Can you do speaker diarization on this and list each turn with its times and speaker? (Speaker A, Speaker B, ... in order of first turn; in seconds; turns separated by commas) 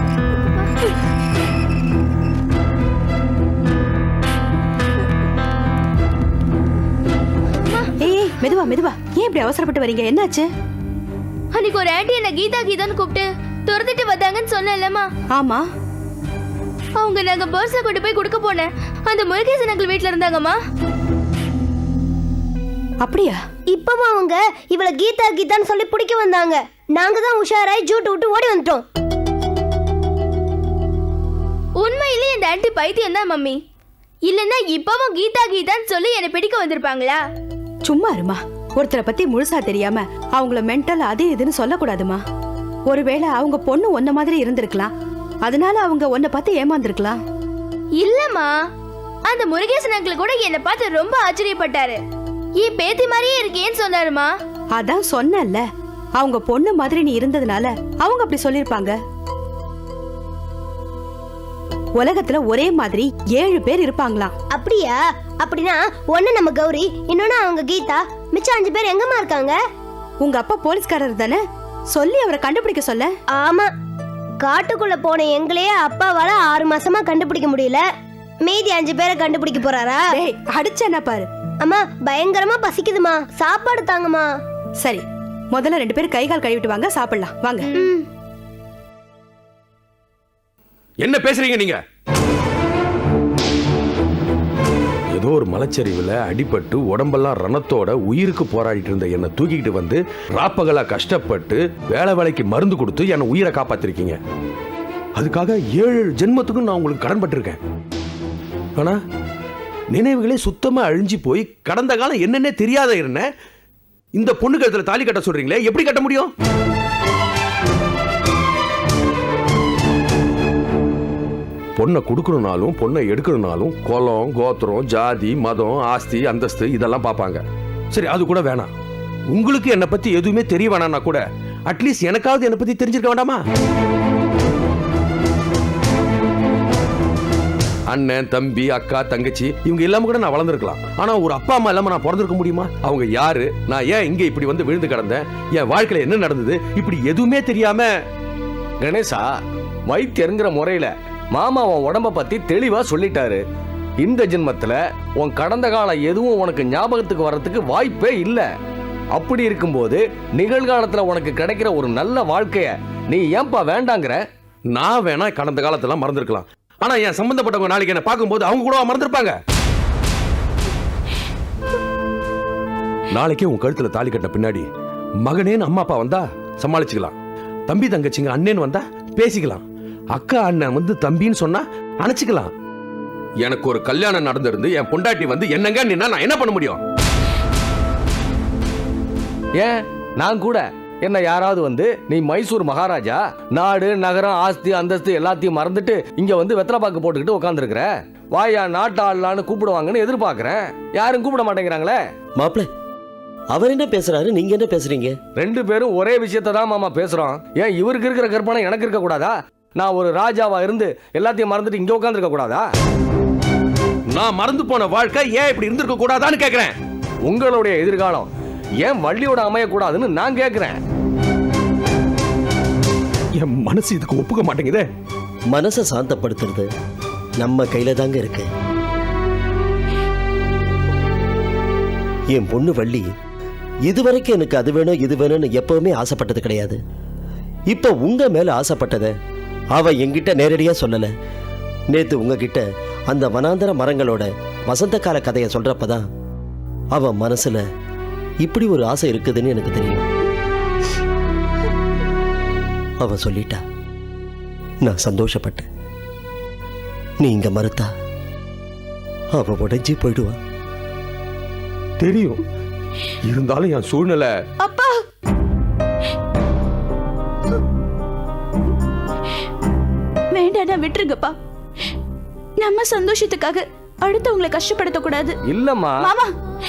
Speaker A: 0.4-0.7, Speaker B: 8.0-10.4, Speaker A: 11.5-15.1, Speaker B: 15.3-15.6, Speaker A: 17.0-20.6, Speaker B: 23.0-23.4, Speaker C: 23.7-28.8, Speaker A: 31.8-33.5, Speaker A: 34.3-37.2, Speaker B: 37.9-42.2, Speaker B: 42.9-44.9, Speaker B: 45.5-47.2, Speaker A: 48.0-48.5, Speaker A: 49.3-52.0, Speaker A: 52.6-54.3, Speaker B: 54.8-55.6, Speaker B: 56.2-58.9, Speaker B: 62.0-64.3, Speaker C: 64.5-69.6, Speaker B: 70.2-71.4, Speaker B: 71.9-73.1, Speaker C: 73.3-73.7, Speaker C: 74.4-77.8, Speaker C: 78.4-80.0, Speaker B: 80.2-81.2, Speaker C: 81.6-84.3, Speaker B: 85.5-87.7, Speaker C: 87.8-88.0, Speaker D: 91.0-91.8, Speaker D: 95.1-104.2, Speaker D: 105.2-107.6, Speaker D: 109.9-113.3, Speaker D: 114.2-116.3, Speaker D: 121.8-128.7, Speaker D: 129.3-133.4, Speaker D: 137.9-147.9, Speaker E: 148.8-149.3, Speaker E: 149.9-153.4, Speaker E: 154.0-158.4, Speaker E: 159.1-164.2, Speaker D: 164.7-169.4, Speaker D: 173.1-174.7, Speaker D: 175.2-177.2, Speaker D: 177.7-182.5, Speaker D: 183.4-186.8, Speaker E: 189.6-202.0, Speaker F: 202.4-202.7, Speaker F: 203.5-205.2, Speaker E: 205.4-212.6, Speaker D: 214.1-216.7, Speaker E: 217.3-218.3, Speaker E: 218.8-220.8, Speaker D: 223.4-224.9, Speaker F: 225.5-226.7, Speaker F: 227.4-228.5, Speaker F: 232.3-233.1, Speaker F: 233.9-236.8, Speaker F: 237.7-239.1, Speaker F: 239.8-241.1, Speaker F: 241.9-246.0, Speaker F: 246.9-247.6, Speaker F: 248.4-250.1, Speaker F: 253.0-253.6, Speaker F: 254.8-255.7, Speaker F: 257.2-257.9, Speaker F: 259.3-260.4, Speaker D: 262.0-262.4, Speaker D: 263.2-264.3, Speaker G: 264.6-265.0, Speaker G: 270.3-271.3, Speaker G: 272.6-275.4, Speaker E: 275.5-276.1, Speaker G: 276.0-276.3